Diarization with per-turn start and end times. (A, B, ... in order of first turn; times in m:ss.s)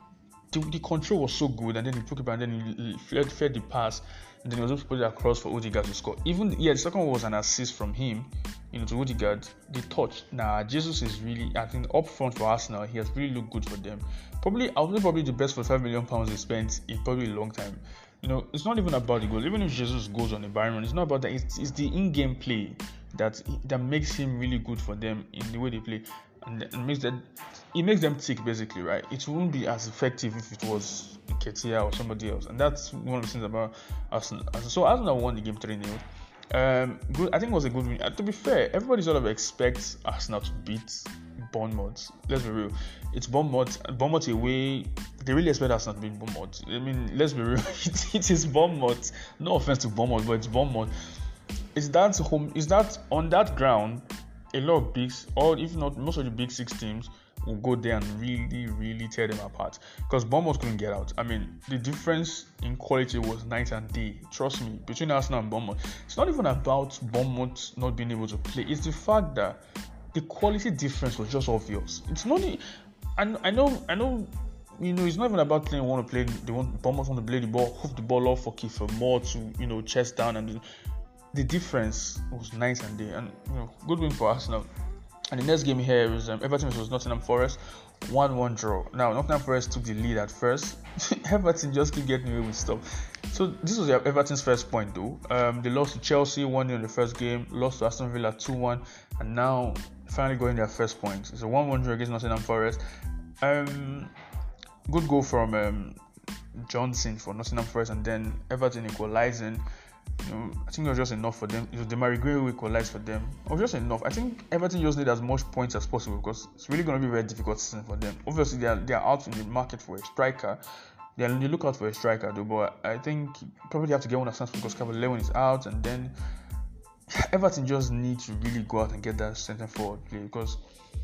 0:00.5-0:50.9 A
0:51.7-1:09.6 A
1:10.1-1:12.6 A
1:13.2-1:20.6 A
1:21.3-1:24.7 A
1:25.3-1:42.8 A
1:43.4-1:44.1 A
1:44.9-1:46.0 A
1:46.5-1:49.6 A
1:50.2-2:00.6 A
2:01.2-2:06.1 A
2:07.1-2:10.6 A